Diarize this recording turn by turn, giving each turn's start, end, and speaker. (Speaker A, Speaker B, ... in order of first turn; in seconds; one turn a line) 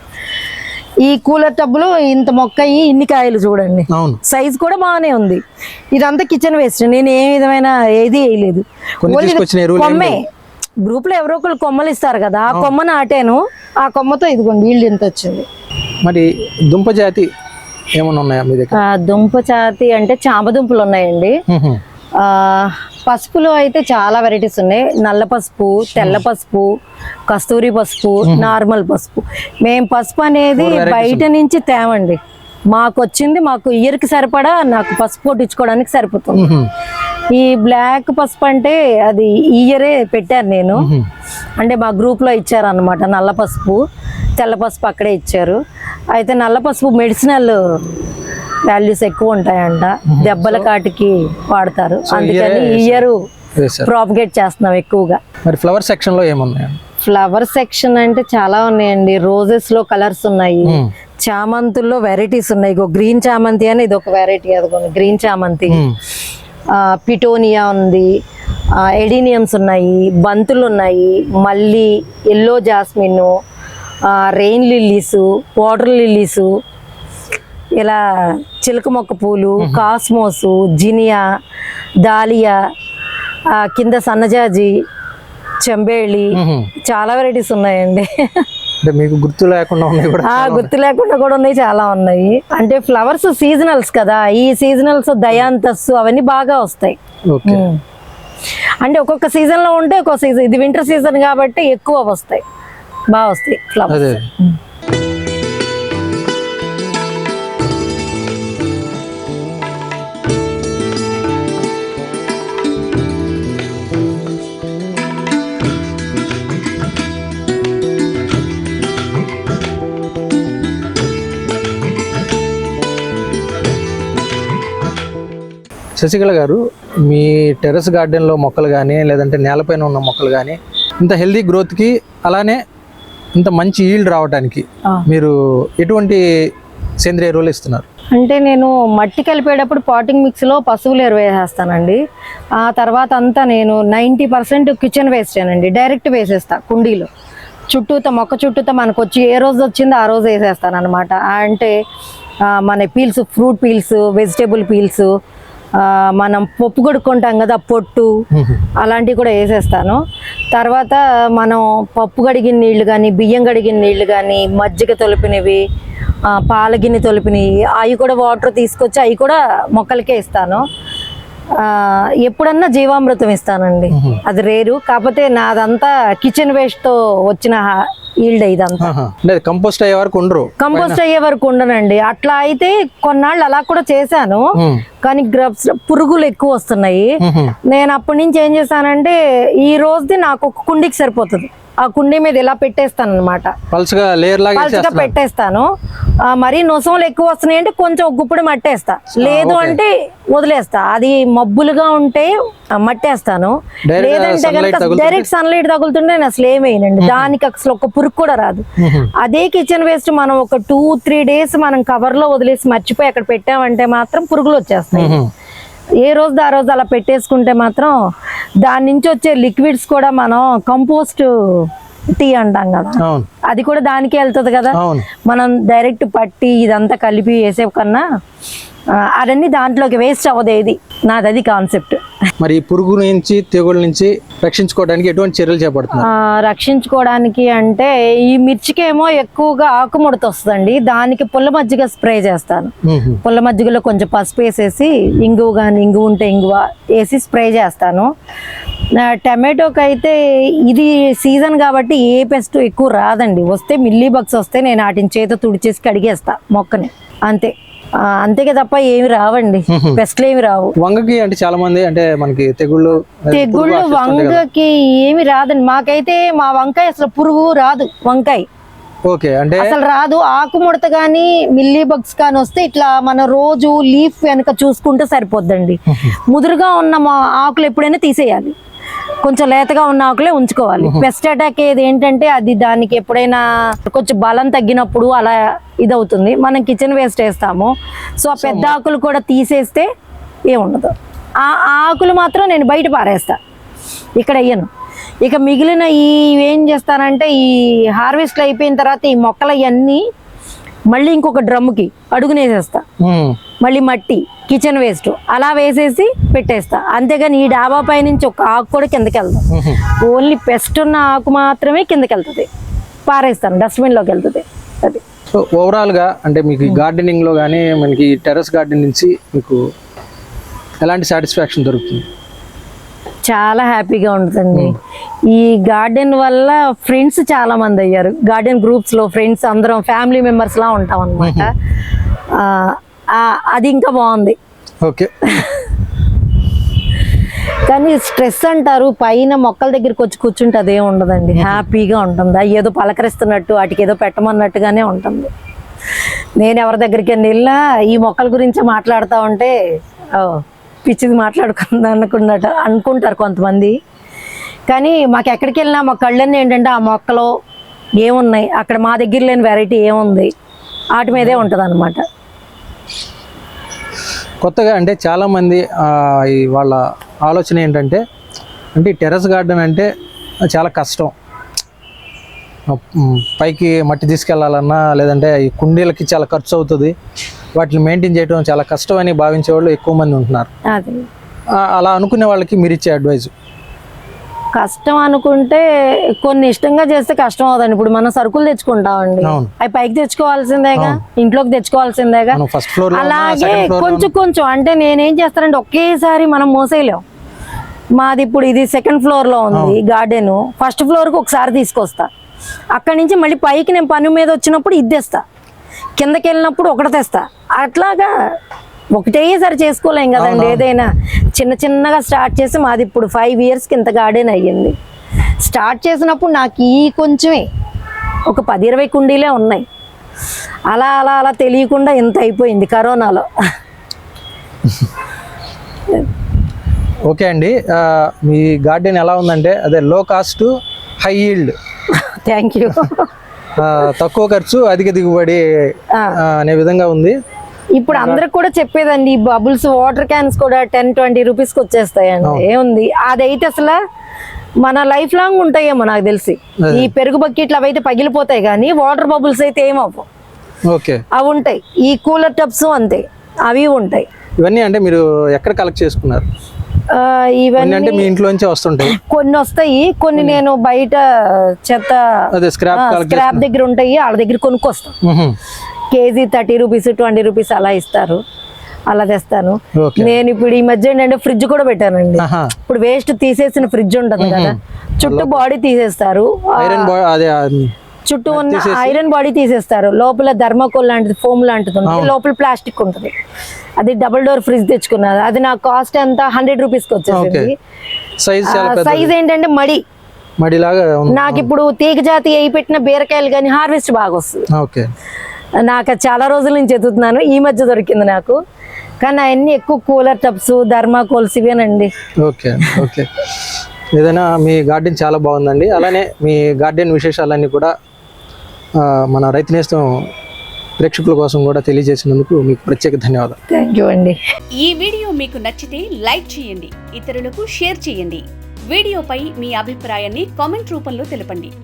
Speaker A: 1.0-5.4
Speaker B: 3.9-4.2
Speaker A: 5.9-10.2
Speaker B: 9.0-10.2
Speaker A: 10.8-15.4
Speaker B: 16.0-17.3
Speaker B: 17.9-18.8
Speaker A: 18.7-21.4
Speaker B: 21.5-21.8
Speaker A: 22.2-26.7
Speaker B: 25.9-26.2
Speaker A: 27.3-32.2
Speaker B: 28.2-28.6
Speaker B: 30.6-31.3
Speaker A: 32.7-36.5
Speaker B: 36.3-36.7
Speaker A: 37.3-40.9
Speaker B: 40.8-41.1
Speaker A: 41.6-43.8
Speaker A: 44.4-45.6
Speaker A: 46.1-47.6
Speaker A: 48.7-53.2
Speaker B: 50.1-50.7
Speaker B: 52.0-53.9
Speaker A: 53.8-55.2
Speaker B: 55.4-56.8
Speaker A: 57.0-65.8
Speaker B: 60.6-60.9
Speaker B: 65.7-66.0
Speaker A: 66.7-68.1
Speaker A: 68.8-73.3
Speaker A: 74.0-76.5
Speaker A: 77.8-81.2
Speaker A: 82.0-82.6
Speaker A: 83.5-84.7
Speaker A: 85.6-88.5
Speaker B: 86.3-86.7
Speaker B: 88.8-90.7
Speaker A: 90.2-97.8
Speaker B: 97.3-97.6
Speaker A: 98.8-102.4
Speaker A: 103.1-104.5
Speaker B: 103.9-104.2
Speaker B: 126.0-132.6
Speaker B: 133.3-136.2
Speaker B: 137.0-137.8
Speaker A: 138.1-142.0
Speaker A: 142.6-147.1
Speaker A: 147.7-151.7
Speaker A: 152.5-155.1
Speaker A: 155.8-158.1
Speaker B: 158.3-158.6
Speaker A: 158.8-160.0
Speaker A: 160.5-165.6
Speaker A: 166.3-170.6
Speaker A: 171.6-178.9
Speaker B: 173.9-174.2
Speaker B: 178.8-181.0
Speaker A: 180.6-184.4
Speaker B: 184.6-184.8
Speaker A: 185.0-187.1
Speaker B: 187.2-187.6
Speaker A: 187.7-193.5
Speaker B: 193.7-195.1
Speaker A: 194.5-195.7
Speaker A: 196.2-208.6
Speaker B: 199.2-199.8
Speaker B: 203.9-205.3
Speaker B: 207.0-207.3
Speaker B: 208.8-209.1
Speaker A: 209.2-215.2
Speaker B: 214.9-215.3
Speaker A: 216.0-217.9
Speaker A: 218.6-228.0
Speaker B: 223.0-223.3
Speaker B: 224.7-225.1
Speaker A: 229.0-232.0
Speaker B: 232.4-236.1
Speaker A: 236.0-242.7
Speaker B: 242.8-243.2
Speaker A: 243.2-248.1
Speaker A: 248.9-257.5
Speaker A: 258.0-260.7
Speaker B: 259.7-260.0
Speaker B: 260.8-264.4
Speaker A: 263.3-268.4
Speaker B: 269.1-269.7
Speaker A: 269.6-278.5
Speaker B: 275.9-276.1
Speaker A: 279.2-289.9
Speaker B: 280.8-281.1
Speaker B: 288.4-288.8
Speaker A: 290.5-293.4
Speaker A: 294.2-294.7
Speaker A: 295.2-300.0
Speaker A: 300.9-302.8
Speaker B: 303.0-303.4
Speaker A: 303.6-309.5
Speaker B: 309.5-309.8
Speaker A: 310.0-312.5
Speaker A: 313.1-315.0
Speaker B: 315.3-319.6
Speaker B: 320.8-322.0
Speaker A: 323.2-324.7
Speaker A: 325.3-331.5
Speaker B: 331.2-331.5
Speaker A: 332.3-334.4
Speaker B: 334.8-335.3
Speaker A: 335.3-335.7
Speaker A: 337.7-345.3
Speaker B: 341.4-341.6
Speaker A: 346.4-349.5
Speaker A: 350.1-353.7
Speaker A: 354.7-357.3
Speaker A: 358.0-360.3
Speaker A: 360.9-362.0
Speaker B: 361.1-361.5
Speaker B: 364.4-368.0
Speaker B: 368.7-369.9
Speaker B: 370.5-371.1
Speaker B: 372.7-376.9
Speaker B: 377.5-380.5
Speaker A: 380.7-381.0
Speaker B: 381.5-383.3
Speaker A: 384.5-385.6
Speaker A: 386.2-397.0
Speaker B: 389.2-389.5
Speaker B: 392.3-394.1
Speaker A: 397.9-402.1
Speaker B: 399.5-399.8
Speaker A: 402.7-405.2
Speaker A: 406.0-408.1
Speaker A: 408.9-414.7
Speaker B: 410.1-410.7
Speaker A: 415.4-417.4
Speaker A: 418.3-419.6
Speaker A: 420.7-423.2
Speaker B: 427.1-431.6
Speaker A: 431.9-433.1
Speaker B: 433.6-435.4
Speaker B: 436.1-437.1
Speaker A: 437.8-443.8
Speaker B: 437.9-438.2
Speaker A: 444.6-450.1
Speaker B: 446.6-446.9
Speaker B: 450.6-451.0
Speaker A: 451.1-454.1
Speaker B: 454.4-456.3
Speaker A: 456.9-458.1
Speaker B: 457.6-458.9
Speaker A: 458.8-462.0
Speaker B: 460.1-460.4
Speaker B: 462.3-463.5
Speaker A: 462.7-464.9
Speaker B: 465.0-465.4
Speaker A: 465.9-468.2
Speaker A: 468.9-476.9
Speaker B: 469.8-470.1
Speaker B: 472.2-472.5
Speaker B: 474.2-475.4
Speaker B: 476.6-477.7
Speaker A: 478.0-483.1
Speaker B: 478.3-479.0
Speaker B: 481.8-482.1
Speaker A: 483.8-487.5
Speaker B: 487.1-487.5
Speaker B: 488.2-489.1
Speaker A: 488.4-489.8
Speaker B: 490.4-491.5
Speaker A: 491.1-494.4
Speaker B: 494.5-494.9
Speaker A: 495.6-498.4
Speaker A: 499.0-501.9
Speaker B: 502.2-503.1
Speaker B: 503.9-507.7
Speaker B: 508.8-509.9
Speaker B: 510.8-513.4
Speaker A: 513.5-514.2
Speaker C: 514.6-521.5